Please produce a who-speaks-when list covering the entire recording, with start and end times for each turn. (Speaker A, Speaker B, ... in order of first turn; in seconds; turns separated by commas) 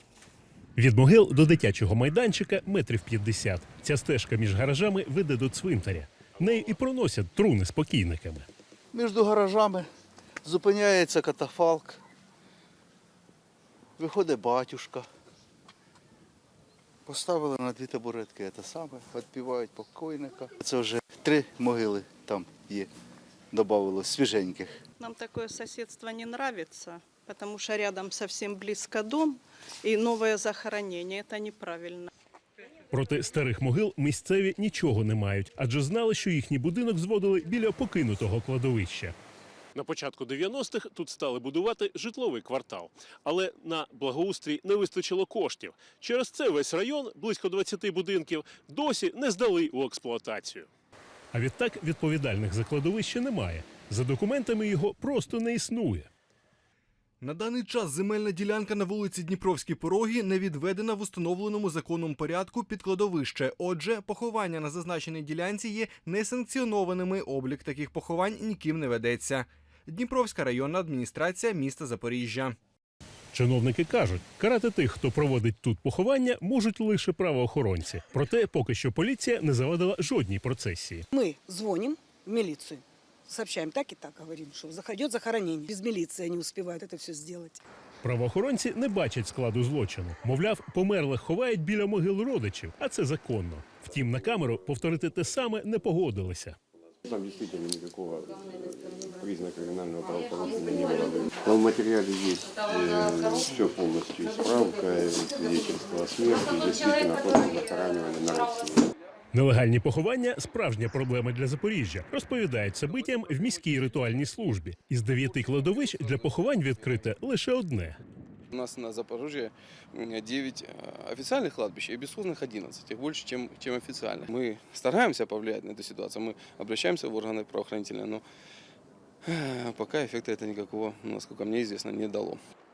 Speaker A: 0.8-8.5, Speaker B: 8.9-9.9, Speaker B: 10.4-12.0, Speaker B: 14.0-15.1, Speaker B: 17.1-22.9, Speaker B: 23.5-24.8, Speaker C: 25.0-32.1, Speaker A: 32.9-39.1, Speaker A: 39.8-50.7, Speaker A: 51.3-56.1, Speaker D: 57.2-72.5, Speaker A: 73.3-81.0, Speaker E: 81.1-87.6, Speaker A: 88.0-96.6, Speaker F: 97.0-108.9, Speaker A: 109.3-118.0, Speaker G: 116.2-116.8, Speaker G: 118.5-128.2, Speaker G: 129.2-132.4